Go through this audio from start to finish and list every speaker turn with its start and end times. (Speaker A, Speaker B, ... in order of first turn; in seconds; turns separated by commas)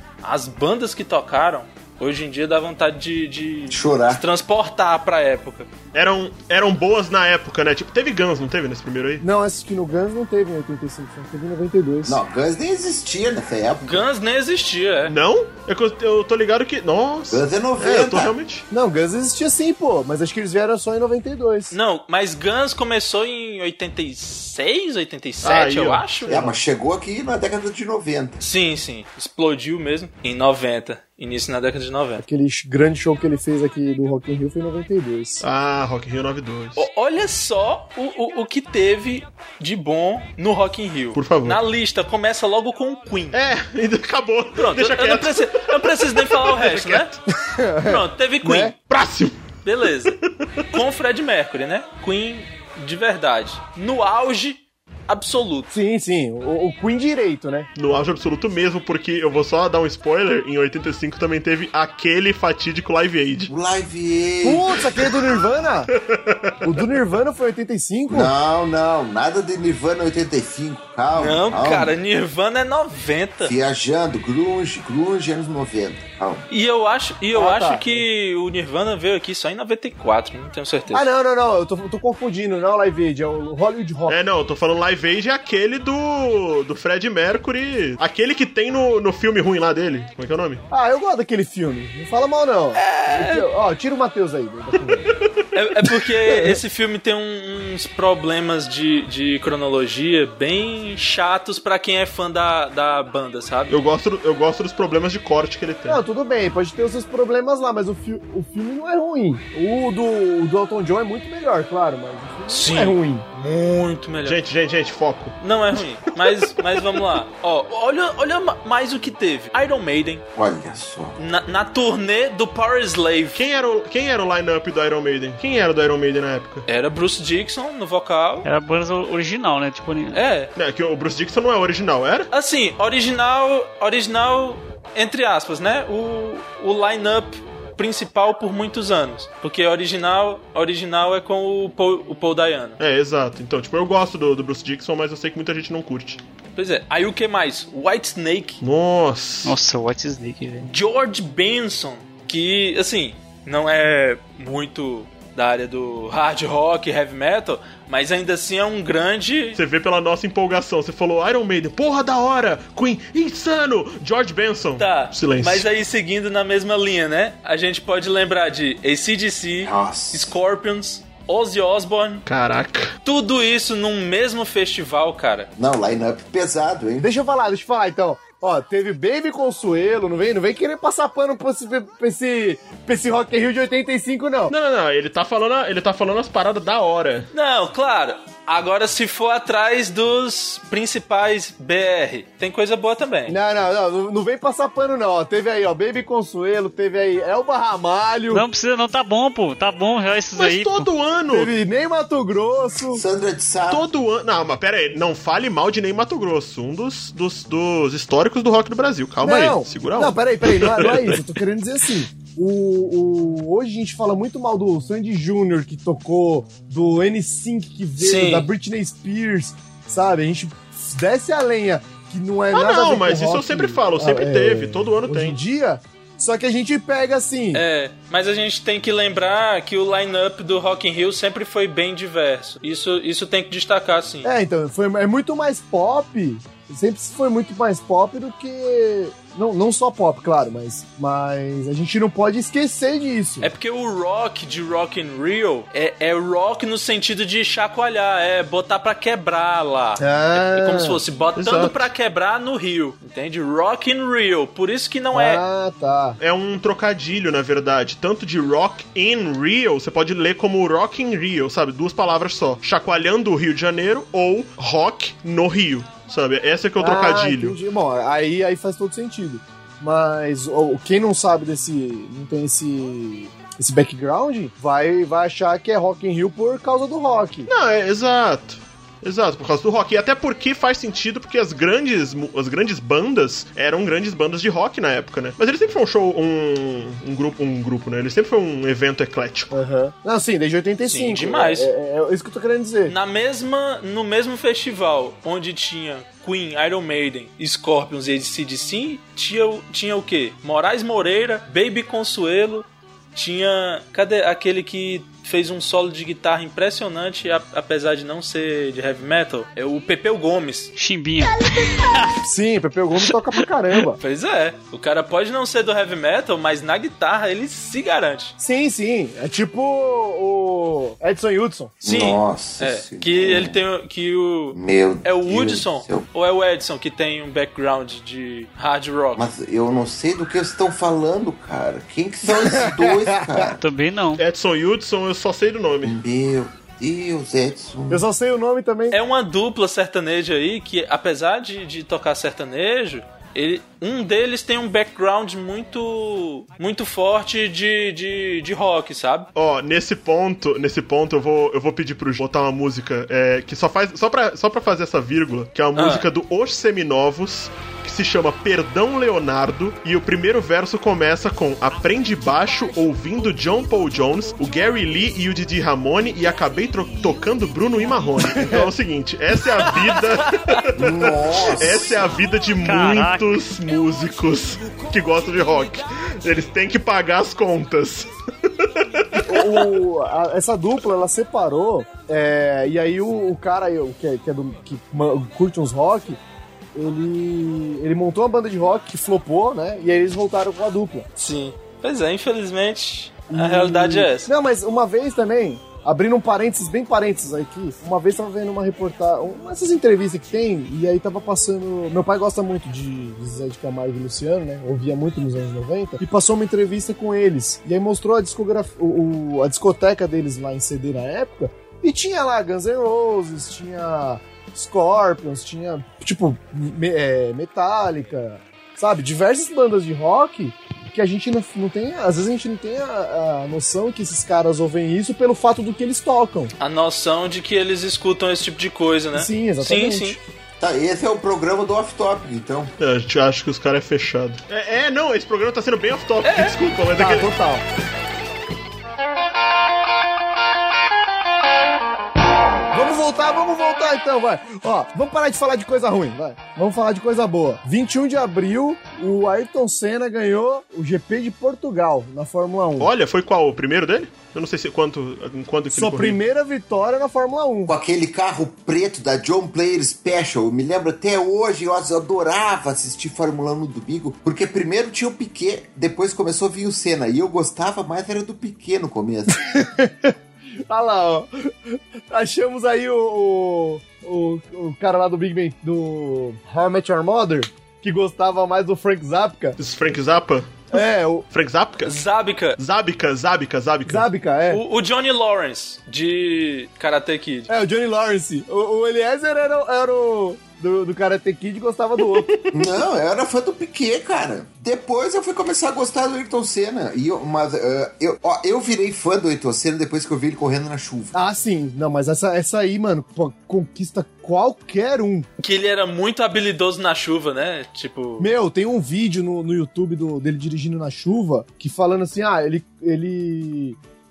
Speaker A: 0.2-5.7, Speaker B: 3.7-4.2, Speaker C: 5.9-9.2, Speaker D: 9.2-12.2, Speaker B: 12.1-14.1, Speaker A: 13.8-15.2, Speaker C: 15.1-18.6, Speaker B: 17.3-18.4, Speaker D: 18.7-21.8, Speaker A: 21.7-26.6, Speaker C: 25.4-26.3, Speaker B: 26.3-28.4, Speaker A: 28.4-32.2, Speaker D: 32.2-35.4, Speaker C: 35.4-36.8, Speaker A: 36.8-43.4, Speaker C: 41.1-41.6, Speaker C: 43.3-47.2, Speaker A: 44.6-47.2, Speaker D: 47.3-48.7, Speaker A: 47.8-48.8, Speaker C: 48.9-49.5, Speaker A: 49.6-50.2, Speaker C: 50.1-50.8, Speaker A: 50.7-55.7, Speaker D: 55.7-57.7, Speaker C: 57.8-63.5, Speaker B: 63.5-64.8, Speaker D: 64.4-65.9, Speaker C: 65.9-66.9, Speaker D: 66.6-68.3, Speaker B: 68.1-72.0, Speaker A: 71.2-73.5, Speaker B: 73.4-76.5, Speaker A: 76.5-81.1, Speaker D: 77.3-78.1, Speaker D: 80.9-84.2, Speaker C: 84.1-90.6, Speaker D: 90.7-95.2, Speaker A: 92.8-93.5, Speaker A: 95.5-103.8, Speaker D: 96.3-96.6, Speaker C: 103.7-106.0, Speaker D: 105.9-113.3, Speaker A: 112.5-114.4, Speaker C: 114.2-115.4, Speaker A: 115.4-120.2, Speaker C: 116.2-117.0, Speaker B: 120.3-121.2, Speaker A: 121.2-123.4, Speaker C: 123.3-126.7, Speaker A: 126.7-128.5, Speaker E: 128.4-130.2, Speaker A: 130.1-130.5, Speaker C: 130.6-132.3, Speaker A: 132.3-142.8, Speaker C: 142.8-146.2, Speaker A: 146.6-148.6, Speaker C: 148.6-149.5, Speaker E: 149.4-150.7, Speaker A: 150.7-159.6, Speaker C: 159.6-165.7, Speaker A: 164.8-172.2, Speaker B: 169.6-170.3, Speaker C: 172.3-172.9, Speaker A: 173.1-175.5, Speaker B: 175.6-177.1, Speaker D: 177.0-184.5, Speaker C: 184.5-187.3, Speaker A: 187.3-193.4, Speaker D: 193.3-198.4, Speaker E: 198.3-200.9, Speaker C: 200.4-201.5, Speaker D: 201.3-203.0, Speaker B: 202.9-203.9, Speaker C: 203.7-211.3, Speaker D: 209.2-227.7, Speaker A: 218.0-218.5, Speaker C: 222.5-225.4, Speaker A: 227.5-234.3, Speaker D: 234.2-243.5, Speaker A: 243.4-255.4, Speaker D: 250.0-251.0, Speaker C: 251.4-251.9, Speaker D: 255.1-256.2, Speaker C: 256.2-267.6, Speaker D: 266.8-277.5, Speaker C: 277.5-289.5, Speaker D: 289.5-292.9, Speaker A: 290.9-291.7, Speaker A: 292.9-310.7, Speaker E: 310.8-312.2, Speaker D: 312.2-314.0, Speaker A: 314.0-318.4, Speaker D: 318.4-321.8, Speaker B: 321.8-323.6, Speaker A: 321.8-329.3, Speaker B: 324.5-326.1, Speaker B: 329.1-333.6, Speaker D: 332.2-333.6, Speaker E: 333.6-334.2, Speaker C: 334.2-336.0, Speaker B: 335.8-338.1, Speaker D: 337.9-339.0, Speaker A: 338.9-349.3, Speaker C: 349.4-379.7, Speaker A: 355.8-356.1, Speaker D: 368.4-368.7, Speaker A: 369.6-370.6, Speaker B: 370.8-372.0, Speaker E: 372.6-373.3, Speaker D: 379.3-386.2, Speaker D: 386.8-391.1, Speaker A: 391.2-394.3, Speaker D: 393.3-426.5, Speaker A: 426.6-430.2, Speaker D: 429.1-430.2, Speaker B: 430.6-432.8, Speaker C: 432.8-437.3, Speaker A: 436.2-436.6, Speaker D: 436.9-437.6, Speaker D: 442.7-452.9, Speaker C: 452.8-456.2, Speaker D: 455.7-457.7, Speaker B: 457.7-469.4, Speaker D: 469.3-479.6, Speaker C: 479.6-480.7, Speaker D: 480.7-481.3, Speaker C: 481.3-482.0, Speaker A: 481.8-482.6, Speaker C: 482.6-484.1, Speaker D: 483.9-484.6, Speaker A: 484.5-487.5, Speaker D: 487.5-492.3, Speaker C: 492.0-492.8, Speaker B: 492.5-501.2, Speaker D: 501.1-505.3, Speaker A: 505.4-508.3, Speaker D: 508.2-513.8